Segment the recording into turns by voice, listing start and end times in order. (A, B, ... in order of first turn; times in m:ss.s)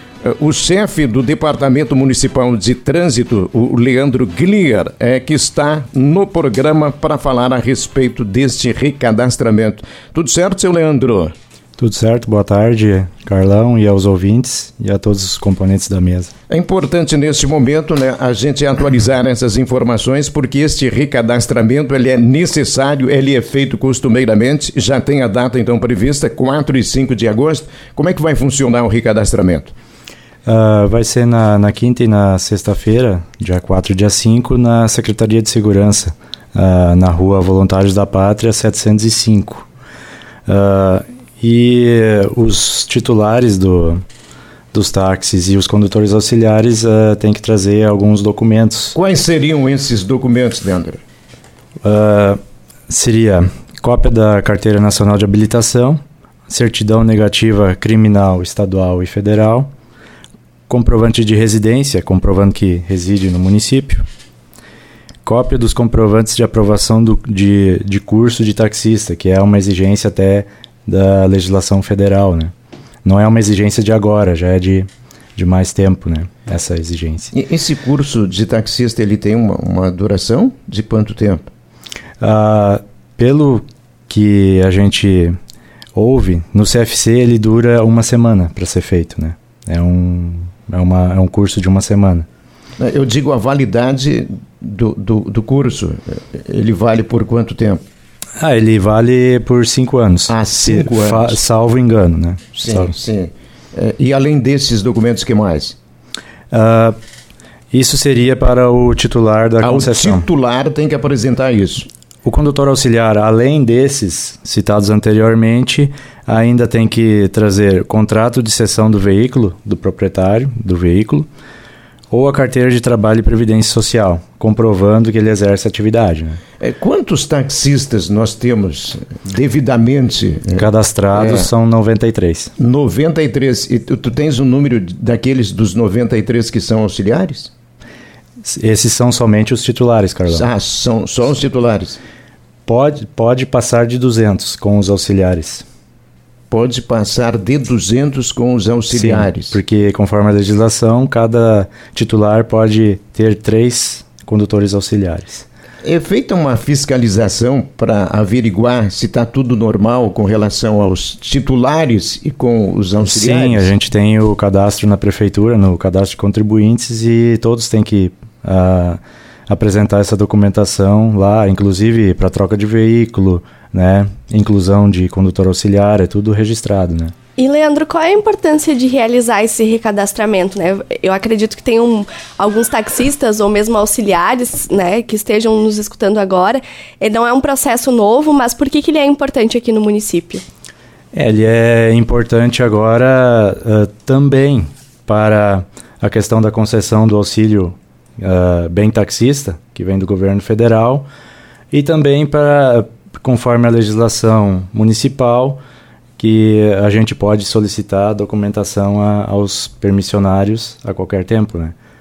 0:00.2-0:11.3 A
0:11.8-0:16.3 B
0:16.5-0:29.7 A
0:30.5-0:39.7 B
0:40.5-0:44.0 B
0:44.7-0:49.0 B
0:49.0-0:51.0 A
0:51.8-0:59.7 B
1:00.7-1:04.0 B
1:05.2-1:12.5 B
1:13.0-1:17.3 B
1:17.3-1:21.5 A
1:22.2-1:25.4 B
1:26.0-1:32.3 B
1:32.8-1:37.8 A
1:38.4-1:42.9 B
1:40.3-1:41.4 A
1:42.6-1:45.8 A
1:46.5-1:47.0 B
1:47.7-1:50.3 B
1:49.6-1:51.9 A
1:52.2-2:01.3 B
2:02.1-2:06.4 B
2:06.6-2:11.5 A
2:10.5-2:12.5 B
2:12.6-2:17.5 A
2:18.4-2:20.5 B
2:20.3-2:22.0 A
2:22.7-2:25.6 B
2:26.5-2:29.6 A
2:28.9-2:35.5 B
2:35.8-2:43.7 A
2:43.0-2:57.1 B
2:57.4-3:10.4 C
3:11.1-3:21.1 B
3:21.7-3:25.6 B
3:26.2-3:31.8 B